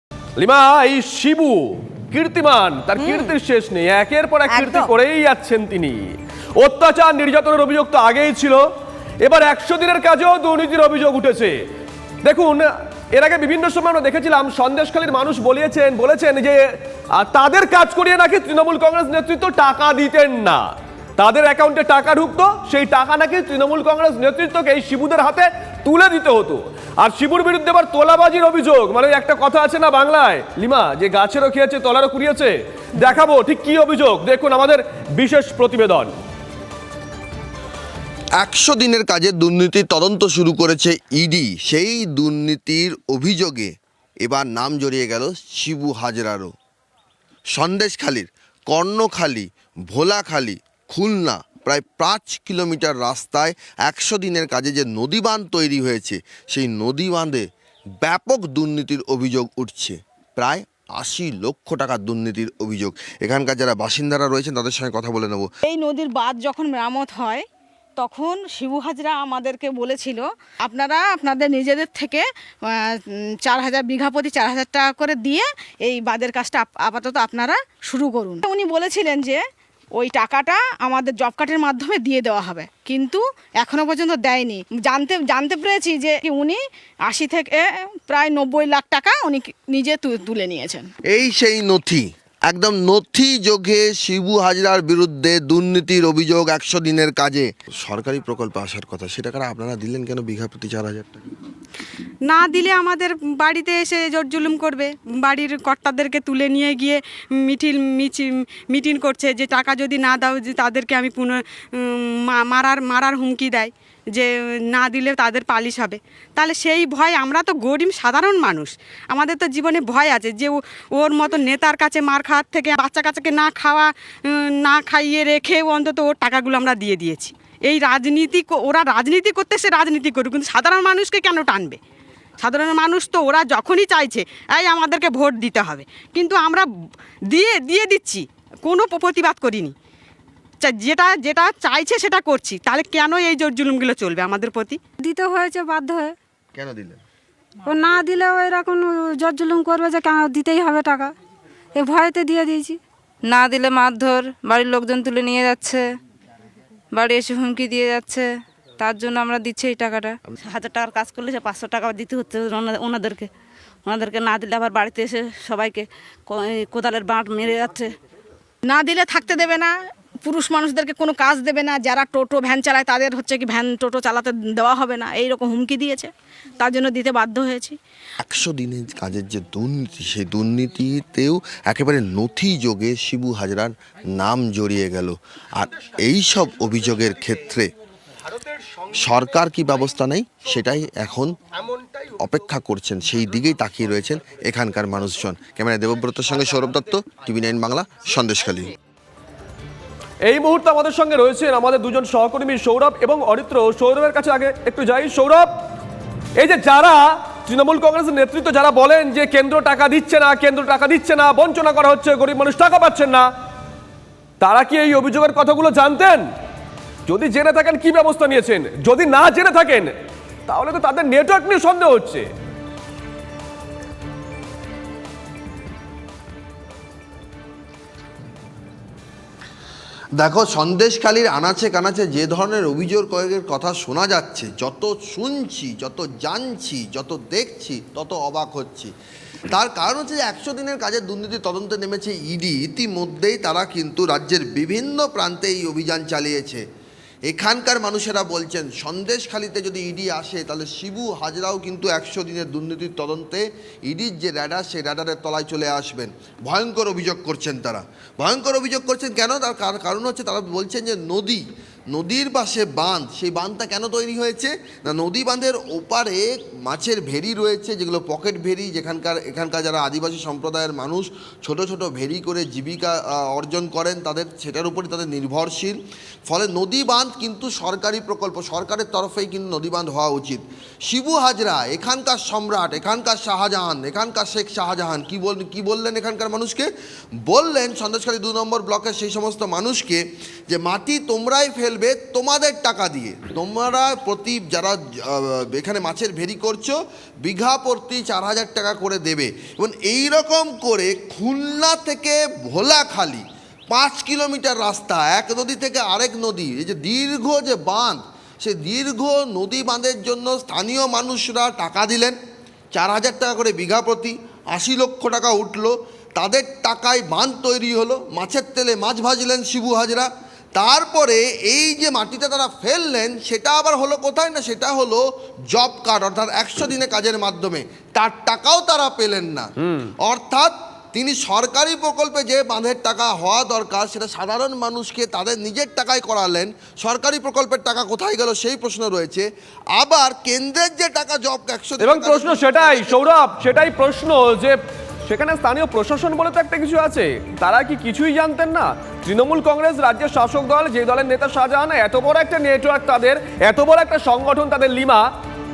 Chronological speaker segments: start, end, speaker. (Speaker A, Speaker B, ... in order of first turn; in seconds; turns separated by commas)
Speaker A: 0.4-6.0, Speaker A: 6.6-8.6, Speaker A: 9.2-11.5, Speaker A: 12.2-16.6, Speaker A: 17.2-20.7, Speaker A: 21.2-36.1, Speaker B: 38.4-46.5, Speaker B: 47.5-57.5, Speaker B: 58.0-65.5, Speaker C: 65.6-67.4, Speaker C: 68.0-72.2, Speaker C: 72.8-79.4, Speaker C: 80.0-90.9, Speaker B: 91.1-101.3, Speaker D: 102.2-131.8, Speaker D: 132.4-136.7, Speaker D: 137.3-139.8, Speaker D: 140.6-144.8, Speaker E: 145.0-146.2, Speaker B: 146.5-147.0, Speaker E: 147.7-151.1, Speaker E: 151.8-152.8, Speaker F: 153.3-155.8, Speaker F: 156.9-160.2, Speaker G: 160.4-163.3, Speaker G: 163.9-167.9, Speaker C: 168.6-169.7, Speaker C: 170.2-177.8, Speaker B: 178.2-187.7, Speaker B: 188.9-191.3, Speaker B: 191.9-198.8, Speaker A: 200.2-205.5, Speaker A: 206.4-213.3, Speaker A: 214.4-216.2, Speaker A: 217.1-219.9, Speaker A: 220.5-222.3, Speaker B: 230.2-238.9, Speaker B: 239.5-246.6, Speaker B: 247.3-286.7, Speaker B: 287.3-312.2, Speaker B: 312.7-329.5, Speaker B: 330.0-343.1, Speaker A: 341.8-344.6, Speaker A: 345.1-355.0